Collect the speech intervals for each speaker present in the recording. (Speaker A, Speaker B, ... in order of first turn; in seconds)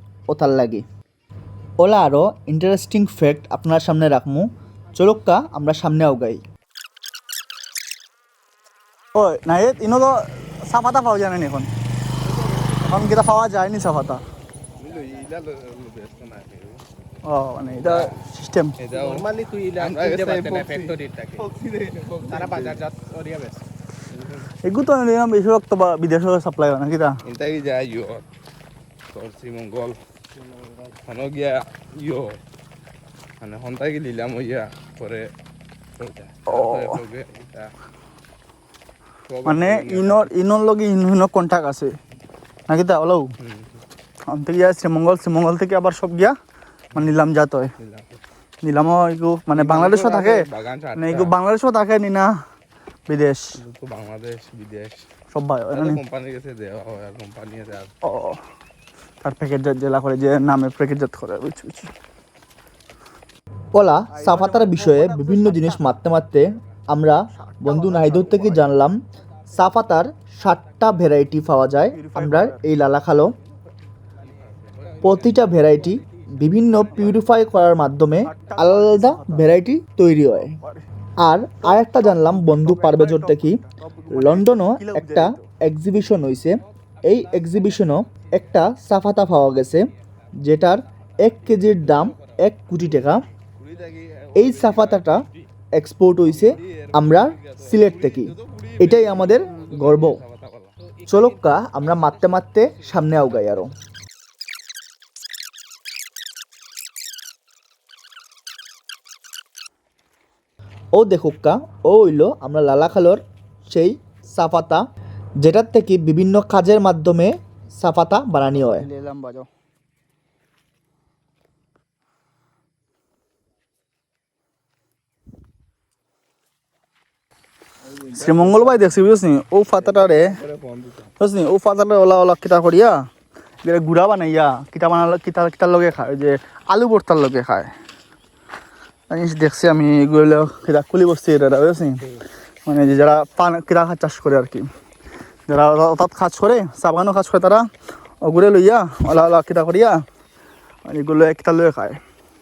Speaker A: 0.3-0.8, 1.8-6.4, 63.7-69.0, 69.5-73.4, 75.0-80.6, 81.2-83.6, 84.1-93.2, 94.4-100.2, 101.1-103.7, 110.9-114.8, 115.4-118.9
Speaker B: 9.2-11.7, 12.8-14.2, 17.2-18.8, 24.6-27.2, 36.5-37.0, 39.5-42.0, 42.7-43.3, 44.3-46.4, 46.9-47.7, 48.6-50.4, 51.0-52.3, 53.1-53.4, 55.3-56.0, 58.0-58.4, 59.2-61.9, 64.1-66.0, 67.3-68.7, 71.9-72.6, 76.7-77.2, 78.2-79.5, 80.4-80.8, 81.6-85.5, 118.5-119.5, 128.2-130.4, 131.2-133.1, 133.6-137.7, 139.1-142.0, 142.7-144.7, 145.5-147.7, 148.2-150.0, 150.9-152.0
Speaker C: 12.3-12.8, 14.9-15.2, 18.9-21.5, 22.2-23.6, 74.2-77.0, 87.0-88.6, 91.2-92.4, 100.8-103.7
Speaker D: 14.8-16.8, 17.8-18.2, 18.8-19.3, 19.8-22.8, 24.1-24.5, 27.2-28.3, 29.1-30.0, 30.9-32.4, 33.4-35.3, 36.0-37.7, 39.3-40.3, 43.4-43.8, 47.8-48.2, 49.5-51.4, 53.6-55.0, 55.7-57.9, 74.7-75.3, 76.8-77.2, 93.6-95.5, 96.2-100.8, 127.8-129.1, 129.8-131.1